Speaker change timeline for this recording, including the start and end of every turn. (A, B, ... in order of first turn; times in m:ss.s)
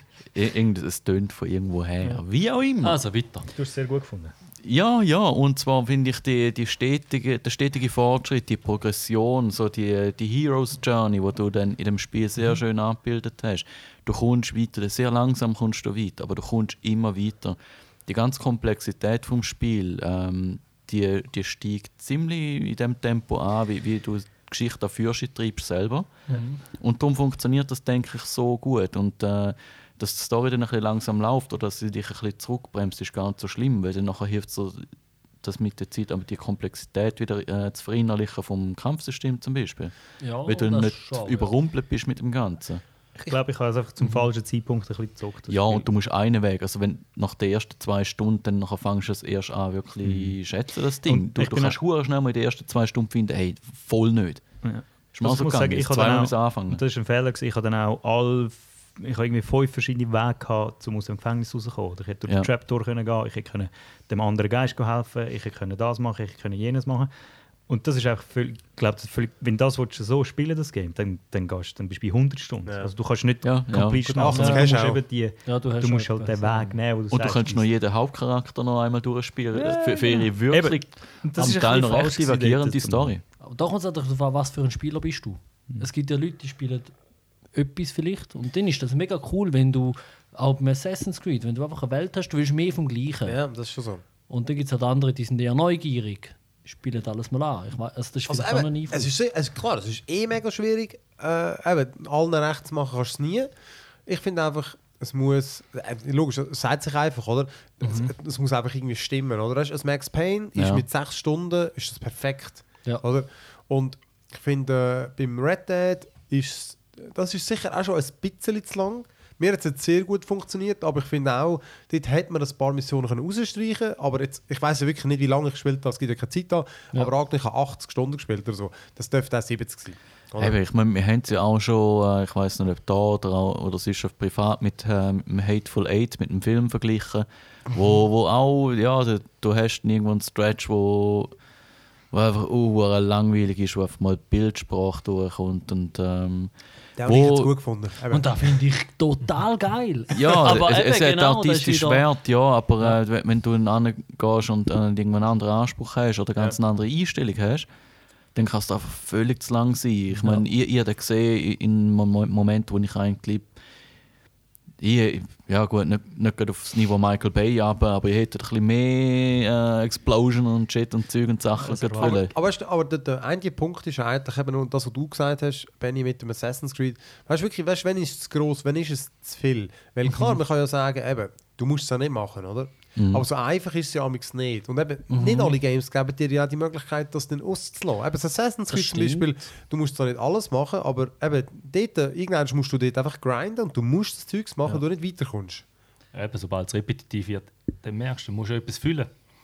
0:00.3-0:03.0 A
0:02.8-0:03.5 B
0:03.5-0:04.3 C
0:04.6-0:26.1 A
0:26.3-0:26.6 D
0:26.7-0:34.9 A
0:35.4-0:39.9 A
0:40.2-0:41.5 D
0:40.4-0:42.8 A
0:43.1-0:45.9 C
0:45.5-0:54.5 A
0:50.0-0:50.4 C
0:51.0-0:51.8 C
0:54.6-1:07.1 C
0:55.1-0:56.8 A
1:07.7-1:17.7 C
1:12.6-1:12.9 E
1:13.4-1:14.6 A
1:14.1-1:15.0 E
1:15.4-1:16.8 D
1:17.1-1:23.2 A
1:19.5-1:23.1 C
1:23.4-1:26.9 D
1:27.5-1:33.4 D
1:33.2-1:34.0 E
1:34.3-1:39.1 D
1:38.3-1:43.5 E
1:44.0-2:10.6 E
1:47.8-1:48.1 D
1:50.6-1:50.8 A
2:10.4-2:21.3 A
2:22.1-2:27.5 A
2:27.0-2:28.3 E
2:28.1-2:32.0 D
2:30.1-2:37.7 A
2:38.3-2:43.5 A
2:44.8-2:52.3 A
2:51.6-2:52.3 D
2:52.0-3:15.6 E
3:03.0-3:03.2 A
3:05.1-3:05.6 D
3:08.7-3:09.3 D
3:16.1-3:19.1 B